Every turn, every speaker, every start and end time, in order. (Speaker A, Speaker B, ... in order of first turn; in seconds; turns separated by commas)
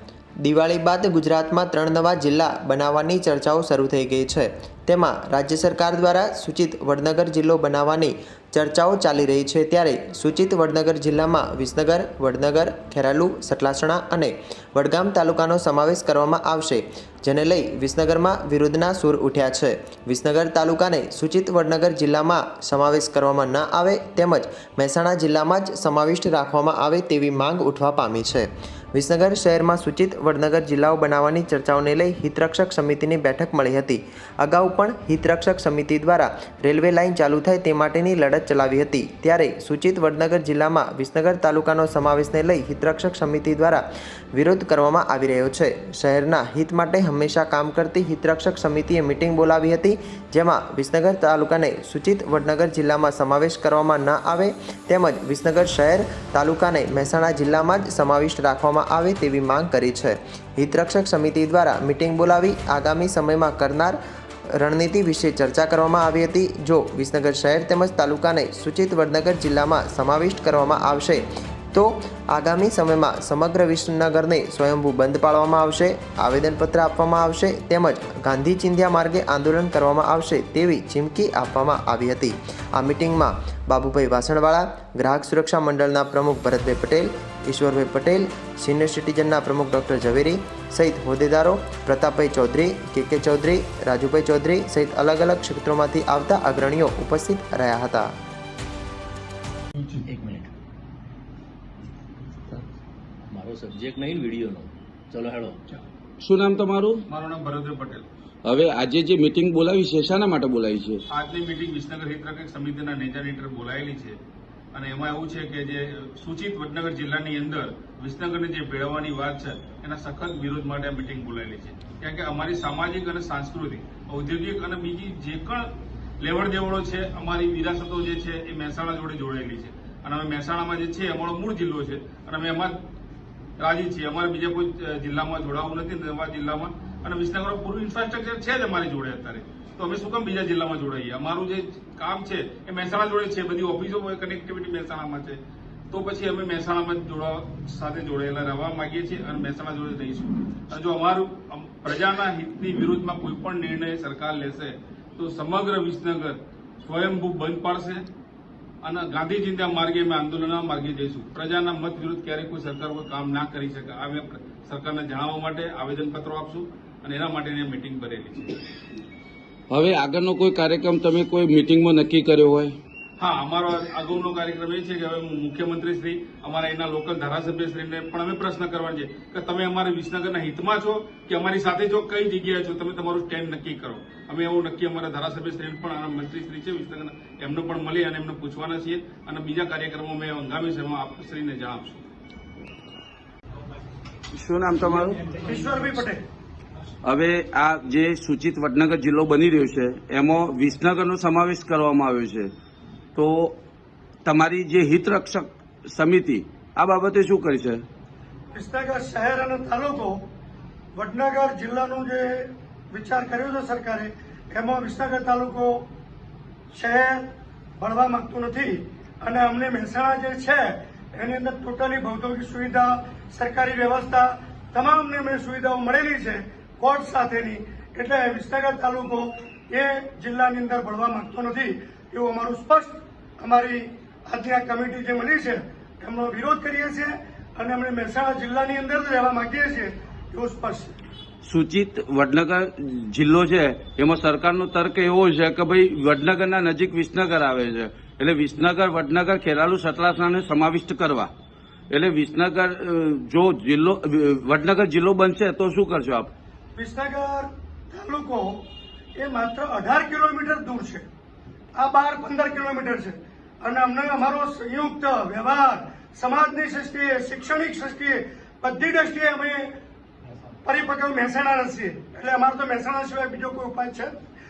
Speaker A: 0.4-98.1, Speaker B: 99.8-100.5, Speaker B: 103.3-105.6, Speaker C: 106.2-107.0, Speaker D: 107.1-108.1, Speaker C: 108.4-111.0, Speaker D: 111.1-114.2, Speaker D: 114.7-132.8, Speaker D: 133.6-145.4, Speaker D: 145.9-158.1, Speaker D: 158.8-168.6, Speaker C: 169.7-172.8, Speaker D: 173.2-192.0, Speaker C: 194.3-195.3, Speaker E: 195.4-196.2, Speaker C: 197.0-202.5, Speaker C: 203.2-203.6, Speaker C: 204.2-207.8, Speaker E: 208.5-210.2, Speaker E: 210.9-215.9, Speaker E: 216.7-241.0, Speaker C: 241.4-251.3, Speaker C: 251.9-256.3, Speaker E: 256.8-258.6, Speaker E: 259.2-261.1, Speaker E: 261.8-269.7, Speaker E: 270.6-274.2